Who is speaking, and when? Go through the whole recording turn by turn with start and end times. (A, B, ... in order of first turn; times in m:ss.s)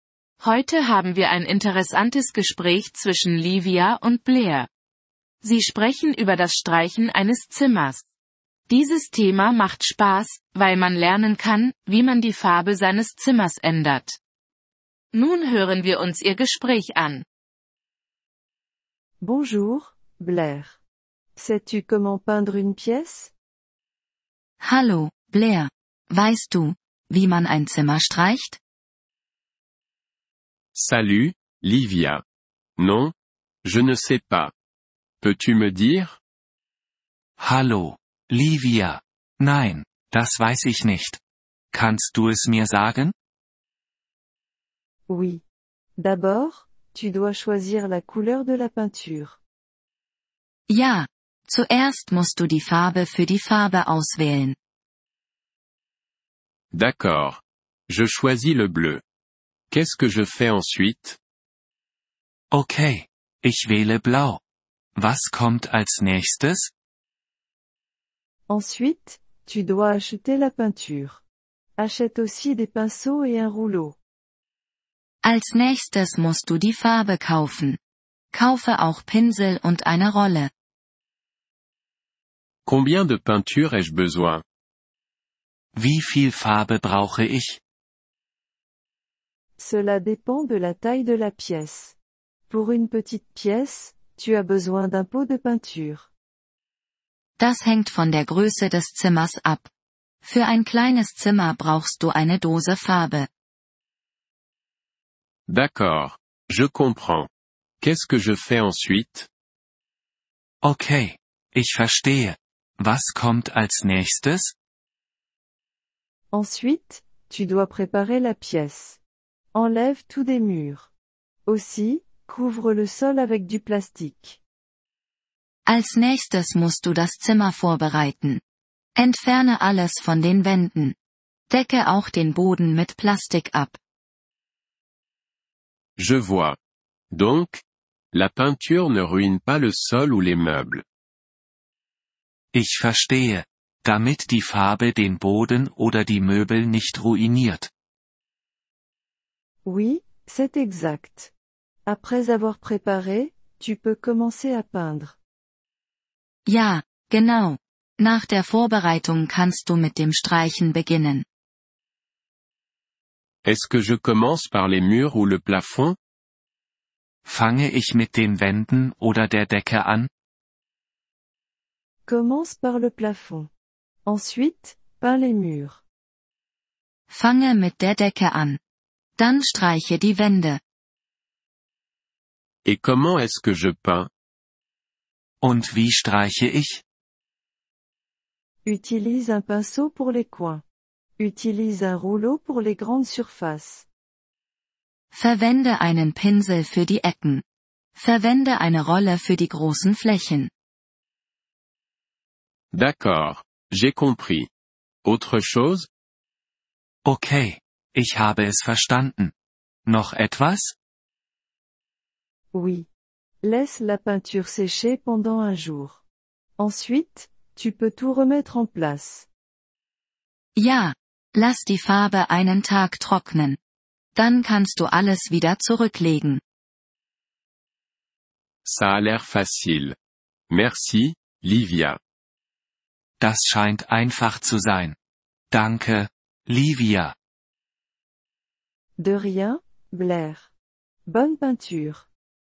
0:00.4-0:04.7 A
0:05.4-0:08.0 A
0:08.7-0:14.2 A
0:15.1-0:17.2 A
0:19.2-0:20.8 B
0:21.4-0:23.3 B
0:24.6-0:28.6 C
0:30.7-0:32.2 D
0:32.8-0:34.5 D
0:35.2-0:36.2 D
0:37.4-0:41.2 E
0:41.7-0:43.1 E
0:45.1-0:45.4 B
0:46.0-0:49.4 B
0:50.7-0:54.6 C
0:56.7-0:59.0 D
0:59.7-1:01.2 D
1:02.5-1:04.4 E
1:05.0-1:06.7 E
1:08.5-1:11.2 B
1:11.8-1:14.0 B
1:15.2-1:17.8 C
1:18.3-1:20.5 C
1:22.7-1:24.4 D
1:25.8-1:27.6 E
1:29.6-1:32.0 B
1:32.5-1:36.1 B
1:37.4-1:39.7 C
1:40.2-1:43.3 C
1:45.5-1:47.3 D
1:47.8-1:49.3 D
1:50.6-1:54.5 E
1:56.3-1:59.0 B
1:59.5-2:00.9 B
2:01.5-2:04.4 B
2:05.6-2:08.4 C
2:09.0-2:11.0 C
2:11.5-2:13.8 C
2:16.0-2:16.6 D
2:17.1-2:17.6 D
2:18.1-2:20.8 D
2:22.5-2:27.7 E
2:29.6-2:31.3 B
2:31.9-2:35.2 B
2:36.5-2:41.3 C
2:43.4-2:46.0 D
2:47.2-2:50.1 E
2:52.1-2:53.5 B
2:54.1-2:55.8 B
2:57.1-2:58.6 C
2:59.2-3:00.6 C
3:02.6-3:04.1 D
3:05.4-3:06.8 E
3:08.6-3:10.6 B
3:11.2-3:13.9 B
3:15.1-3:17.4 C
3:18.0-3:20.5 C
3:22.7-3:24.5 D
3:25.0-3:25.9 D
3:27.0-3:29.3 E
3:29.9-3:30.8 E
3:32.5-3:32.9 B
3:33.4-3:36.0 B
3:36.6-3:39.3 B
3:40.6-3:43.6 C
3:44.2-3:46.4 C
3:48.6-3:50.0 D
3:50.5-3:52.0 D
3:53.2-3:55.0 E
3:55.5-3:57.2 E
3:59.0-4:00.5 B
4:01.1-4:02.0 B